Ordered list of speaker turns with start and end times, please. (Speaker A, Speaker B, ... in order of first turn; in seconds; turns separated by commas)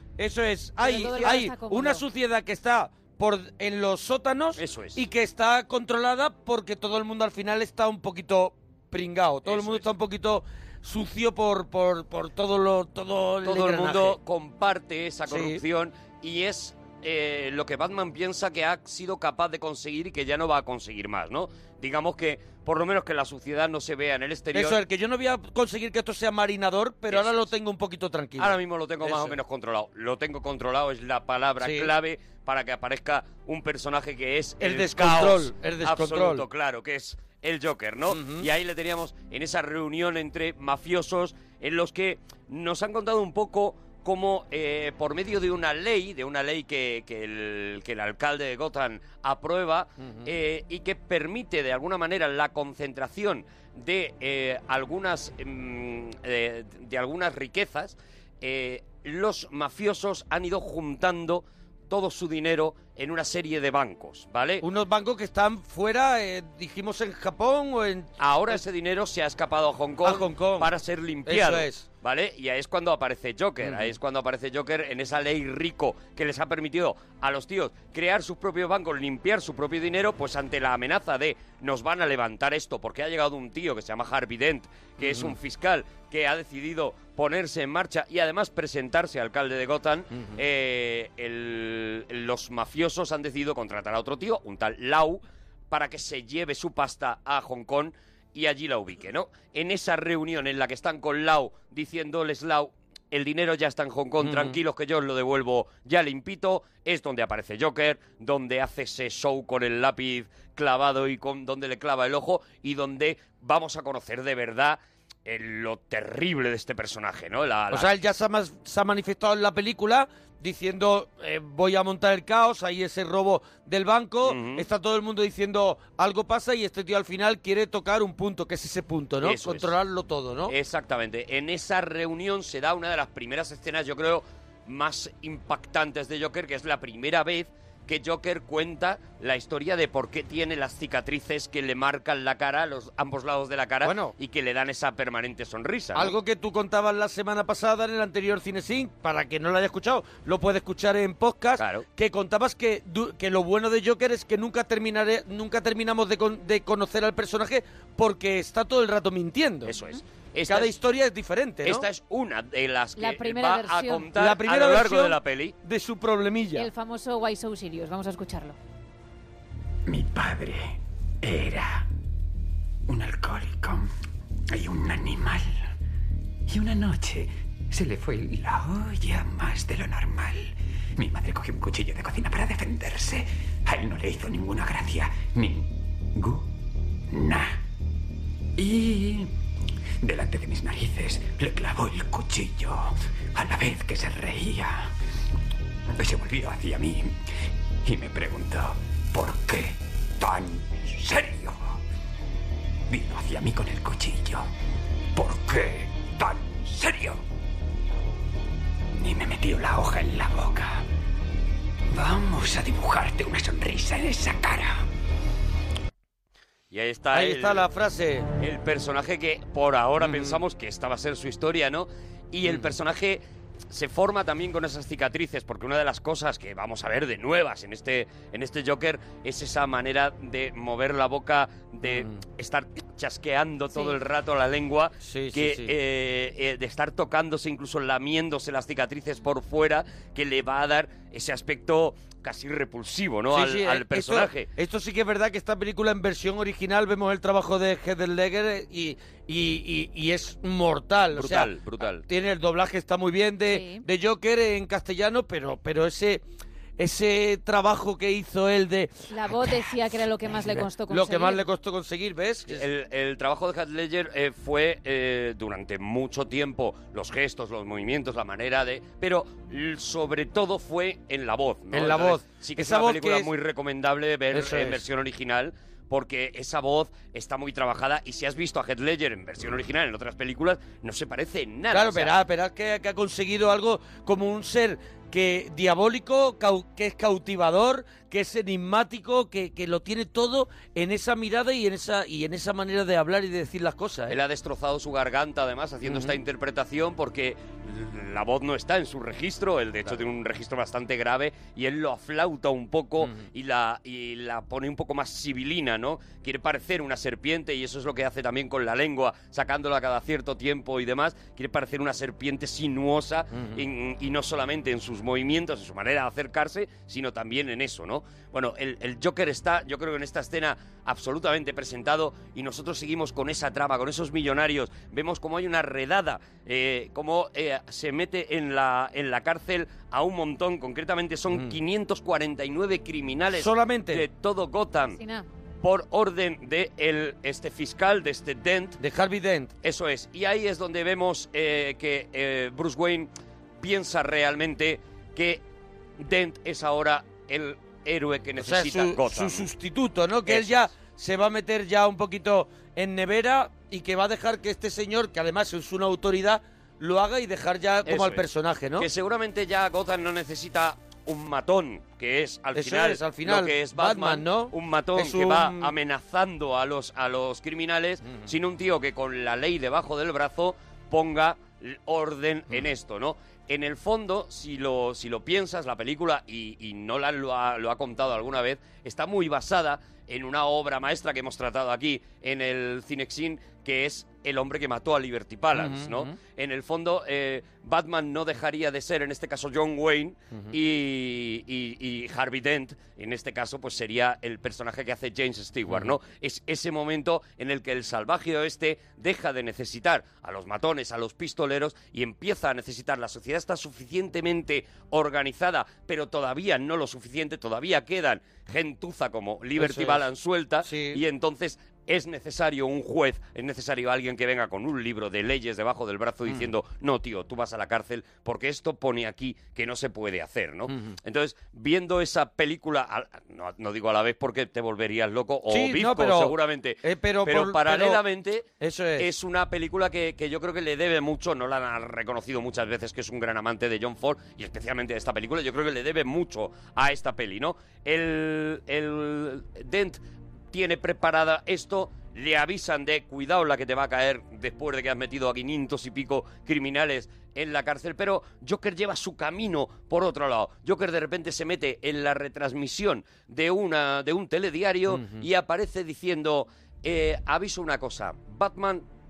Speaker A: 0.2-14.2, Speaker B: 0.8-2.0, Speaker C: 4.6-5.0, Speaker C: 9.5-9.9, Speaker C: 13.4-24.8, Speaker A: 15.3-15.6, Speaker A: 24.5-29.4, Speaker C: 27.1-27.5, Speaker C: 28.4-64.6, Speaker A: 31.6-31.9, Speaker A: 34.6-36.4, Speaker A: 38.1-38.5, Speaker A: 50.0-50.3, Speaker A: 64.6-68.6, Speaker C: 68.2-117.9, Speaker A: 70.0-70.7, Speaker A: 71.3-71.8, Speaker A: 73.6-73.9, Speaker A: 85.0-85.4, Speaker A: 90.1-90.4, Speaker A: 104.2-104.6, Speaker A: 117.7-130.5, Speaker C: 124.2-124.7, Speaker C: 129.2-129.7, Speaker C: 130.5-146.2, Speaker A: 143.8-144.1, Speaker A: 145.9-159.7, Speaker C: 151.6-151.9, Speaker C: 159.7-160.7, Speaker A: 160.5-161.8, Speaker C: 161.6-165.6, Speaker B: 163.0-164.1, Speaker A: 164.2-166.7, Speaker B: 166.6-168.6, Speaker D: 169.9-171.9, Speaker D: 172.9-173.9, Speaker D: 174.5-175.5, Speaker D: 176.5-186.5, Speaker D: 187.1-187.6, Speaker D: 188.6-189.3, Speaker D: 190.0-194.9, Speaker D: 195.9-197.2, Speaker D: 197.8-201.8, Speaker D: 202.9-204.5, Speaker D: 205.2-207.2, Speaker D: 208.9-210.8, Speaker D: 211.9-214.9, Speaker C: 216.7-217.7, Speaker A: 217.1-218.3, Speaker C: 218.4-244.5, Speaker A: 220.0-220.4, Speaker A: 222.4-222.7, Speaker A: 231.8-232.2, Speaker A: 235.0-235.7, Speaker A: 243.3-251.5, Speaker C: 251.1-252.1, Speaker A: 252.0-256.2, Speaker B: 253.5-253.8, Speaker A: 256.8-259.7, Speaker B: 259.1-261.4, Speaker A: 260.4-262.7, Speaker C: 262.5-282.1, Speaker A: 271.7-273.3, Speaker A: 274.3-274.8, Speaker A: 281.7-294.2, Speaker C: 294.1-335.0, Speaker A: 295.9-296.2, Speaker A: 313.4-313.6, Speaker A: 333.4-334.1, Speaker B: 334.9-335.3, Speaker C: 335.6-338.8, Speaker A: 338.8-339.5, Speaker C: 339.6-343.1, Speaker C: 343.6-345.4, Speaker C: 346.0-349.5, Speaker A: 348.4-358.9, Speaker C: 350.3-350.7, Speaker C: 357.9-358.2, Speaker C: 358.8-428.5, Speaker A: 362.5-365.7, Speaker A: 385.6-386.1, Speaker A: 395.7-395.9, Speaker A: 409.6-410.0, Speaker A: 410.6-411.0, Speaker A: 425.5-428.0, Speaker A: 428.6-429.1, Speaker C: 429.0-440.0, Speaker C: 440.5-458.9, Speaker A: 454.9-455.2